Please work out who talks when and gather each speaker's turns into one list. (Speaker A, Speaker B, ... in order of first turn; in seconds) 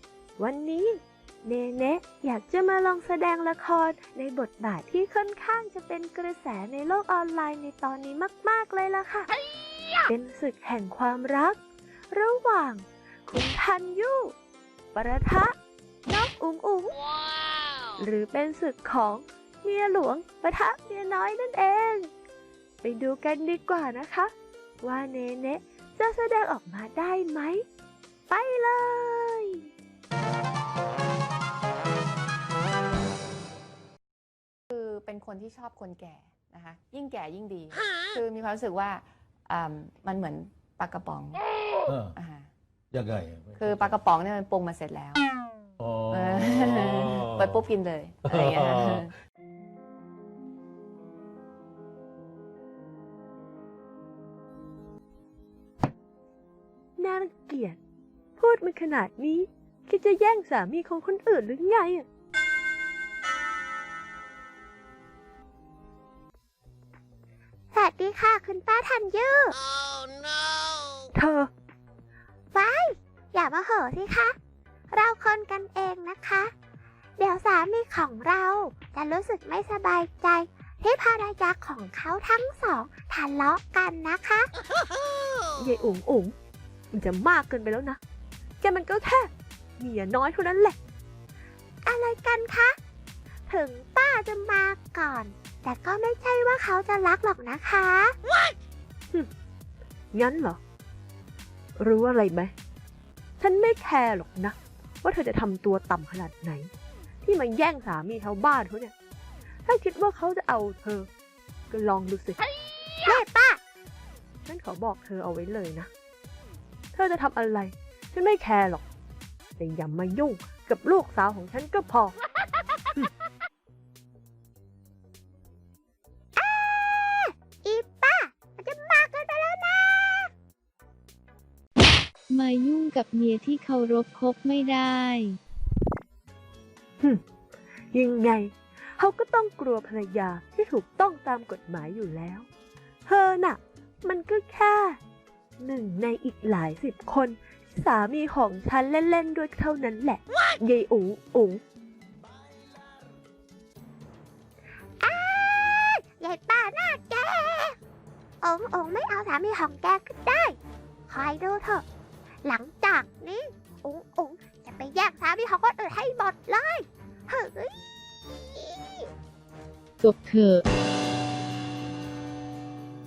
Speaker A: 0.4-9.3, 10.0-11.6, 12.1-14.3, 14.9-15.5, 16.1-17.0, 17.9-22.1, 22.8-27.6, 28.3-29.6, 57.0-57.8, 58.4-62.0, 71.1-71.5, 85.5-86.3, 86.9-88.0, 88.6-90.8, 100.1-100.6, 101.8-102.5, 103.4-106.7, 107.2-108.9, 109.7-111.1, 111.7-112.4, 114.5-115.9, 116.9-118.8, 119.6-122.2, 137.9-142.5, 143.1-145.0, 145.6-151.6
Speaker B: 34.7-41.4, 42.1-42.5, 43.6-45.3, 46.1-49.1
Speaker C: 41.9-42.1, 42.9-43.9, 45.8-47.5, 48.3-49.0
Speaker D: 67.7-69.6, 72.5-74.3, 74.9-76.5, 77.2-84.5, 91.8-92.8, 93.5-98.2, 113.0-113.6, 126.4-130.3, 155.0-157.8, 158.4-161.8, 162.4-167.7, 168.3-169.1
Speaker E: 132.3-135.4, 170.0-170.6